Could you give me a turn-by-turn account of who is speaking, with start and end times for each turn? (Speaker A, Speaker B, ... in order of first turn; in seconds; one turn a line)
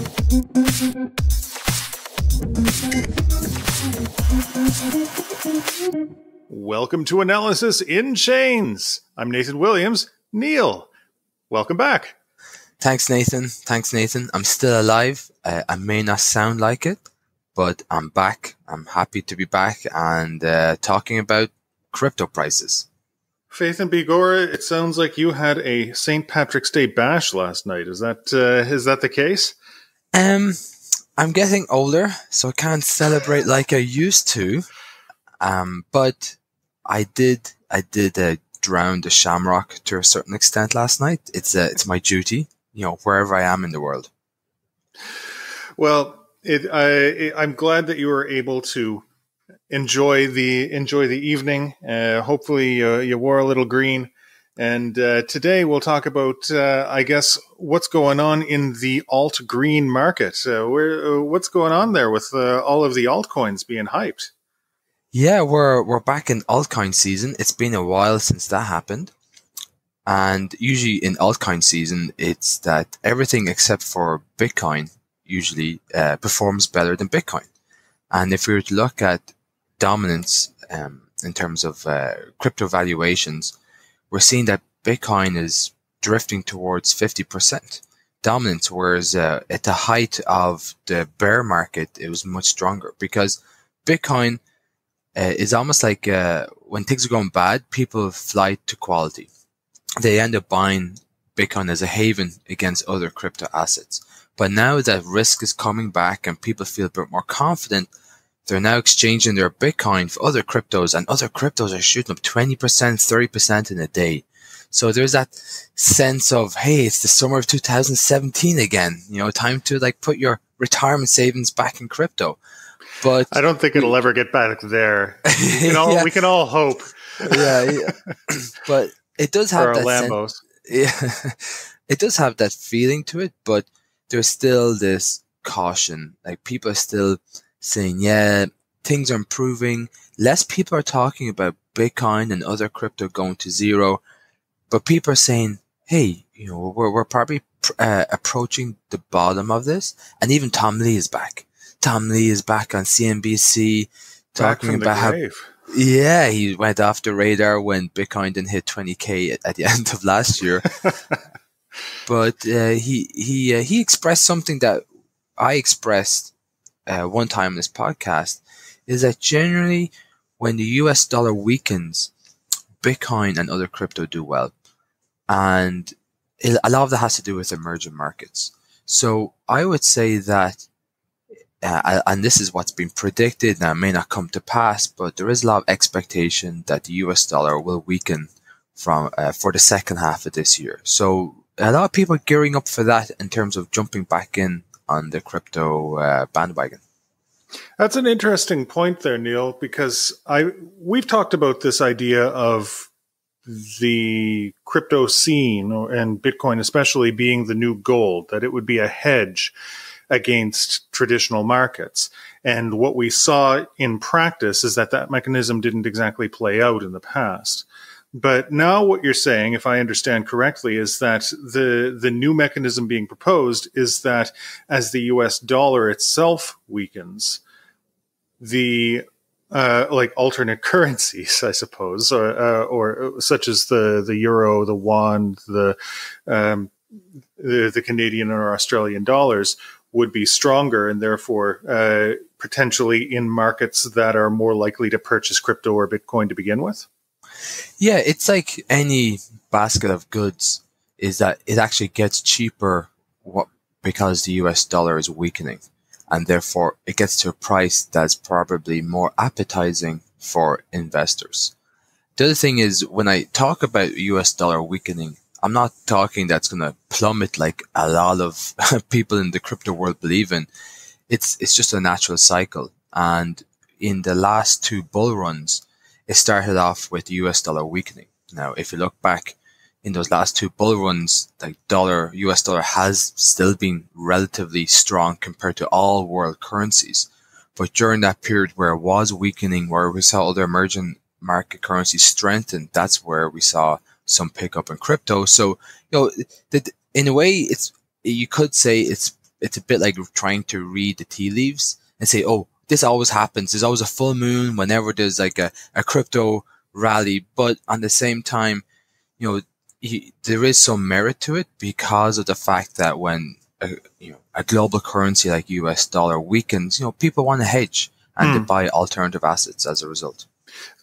Speaker A: 6.5-10.9
Speaker A: 11.5-12.2
Speaker B: 12.8-17.0
Speaker B: 17.6-22.9
Speaker A: 23.5-29.6
Speaker B: 30.1-30.6
Speaker B: 31.2-34.7
Speaker B: 35.4-36.4
Speaker B: 36.9-44.1
Speaker A: 45.8-49.0
Speaker A: 49.7-64.3
Speaker B: 65.1-69.1
Speaker B: 70.0-77.5
Speaker B: 78.1-83.5
Speaker B: 84.1-94.4
Speaker B: 95.2-99.3
Speaker B: 100.0-107.9
Speaker B: 108.5-122.4
Speaker B: 123.0-123.9
Speaker A: 123.3-128.1
Speaker B: 125.2-126.1
Speaker B: 127.2-144.0
Speaker A: 129.5-130.4
Speaker B: 144.7-155.2
Speaker A: 154.4-155.5
Speaker B: 155.7-160.7
Speaker B: 162.1-164.8
Speaker B: 165.4-166.3
Speaker B: 166.9-172.1
Speaker B: 172.8-174.5
Speaker B: 175.3-180.7
Speaker B: 181.6-196.8
Speaker A: 197.8-202.9
Speaker A: 203.4-209.5
Speaker A: 210.1-227.4
Speaker A: 228.4-236.7
Speaker A: 237.4-246.9
Speaker B: 247.8-261.5
Speaker B: 262.2-270.5
Speaker B: 271.1-308.6
Speaker B: 309.2-320.2
Speaker A: 318.2-318.5